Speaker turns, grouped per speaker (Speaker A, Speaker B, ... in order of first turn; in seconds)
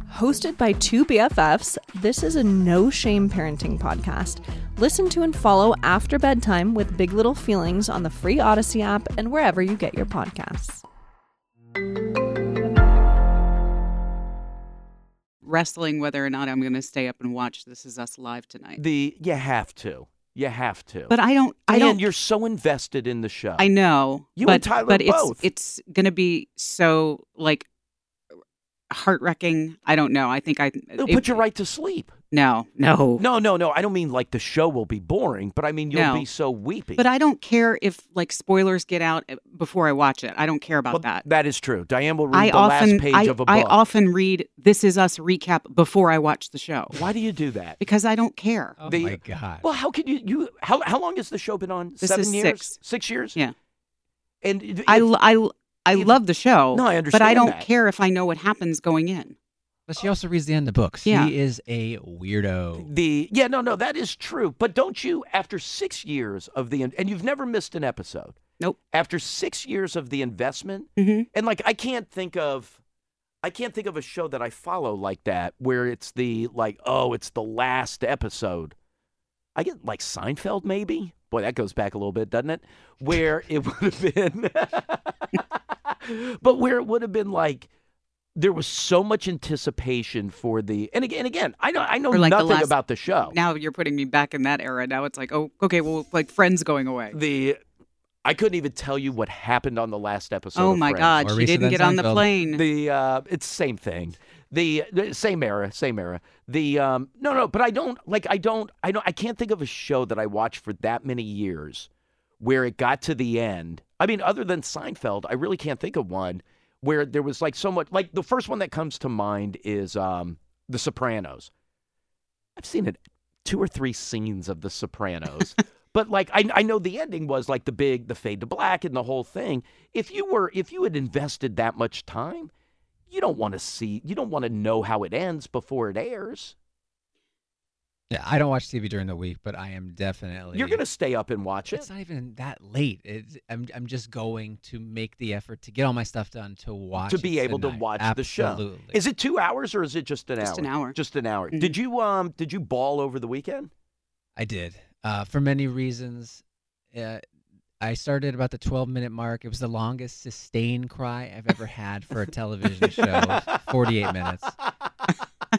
Speaker A: 0.1-10.8
Speaker B: 15.4-18.8, 21.1-22.1, 23.6-27.7, 28.9-31.4, 32.3-33.2, 35.9-36.3, 37.0-41.2, 42.3-47.0, 47.8-48.8, 52.0-52.8, 54.9-59.4, 61.0-61.3, 71.0-71.3, 92.1-97.2, 100.6-102.6, 150.4-151.0
Speaker C: 18.8-21.1, 21.7-23.7, 24.4-25.4, 31.0-32.1, 33.2-37.0, 40.9-43.8, 46.9-47.8, 48.9-53.4, 54.4-55.1, 55.9-56.2, 56.7-57.7, 62.8-68.4, 68.9-72.8, 73.4-78.7, 79.6-85.1, 85.9-87.7, 88.4-93.4, 97.1-97.6, 98.2-101.2, 102.5-111.9, 112.4-121.5, 122.6-132.5, 133.1-136.6, 140.5-141.9, 147.1-153.7
Speaker D: 48.8-49.6, 59.9-62.9, 101.2-102.3, 138.1-140.8, 141.7-149.0, 154.4-157.2, 157.8-164.6